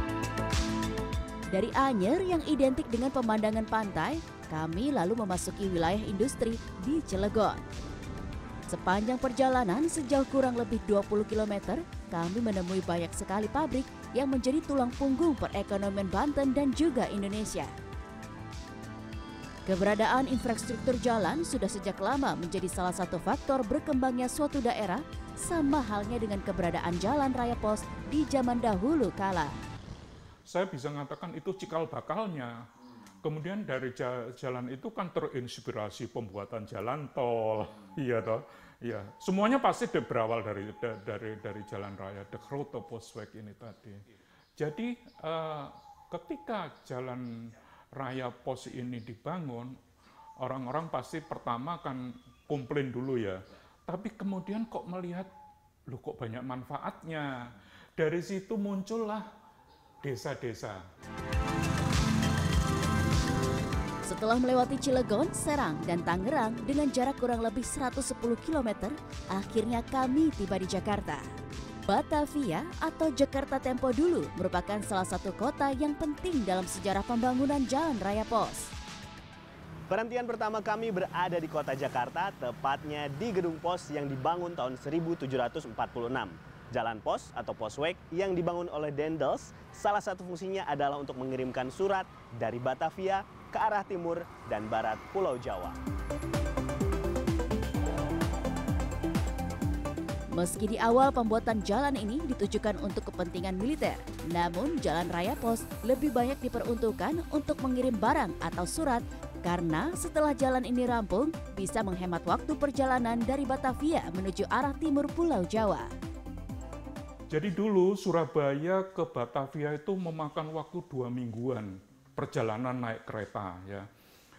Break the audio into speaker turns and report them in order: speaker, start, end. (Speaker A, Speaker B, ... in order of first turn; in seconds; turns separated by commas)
Speaker A: 1.5-7.6, Speaker A: 8.7-17.7, Speaker A: 19.6-29.6, Speaker B: 30.5-32.7, Speaker B: 33.2-44.0, Speaker B: 44.6-49.8, Speaker B: 50.4-55.3, Speaker B: 55.9-59.3, Speaker B: 60.0-60.8, Speaker A: 64.0-71.2, Speaker A: 71.8-78.7, Speaker C: 79.9-95.8, Speaker A: 100.3-115.9, Speaker B: 117.3-123.8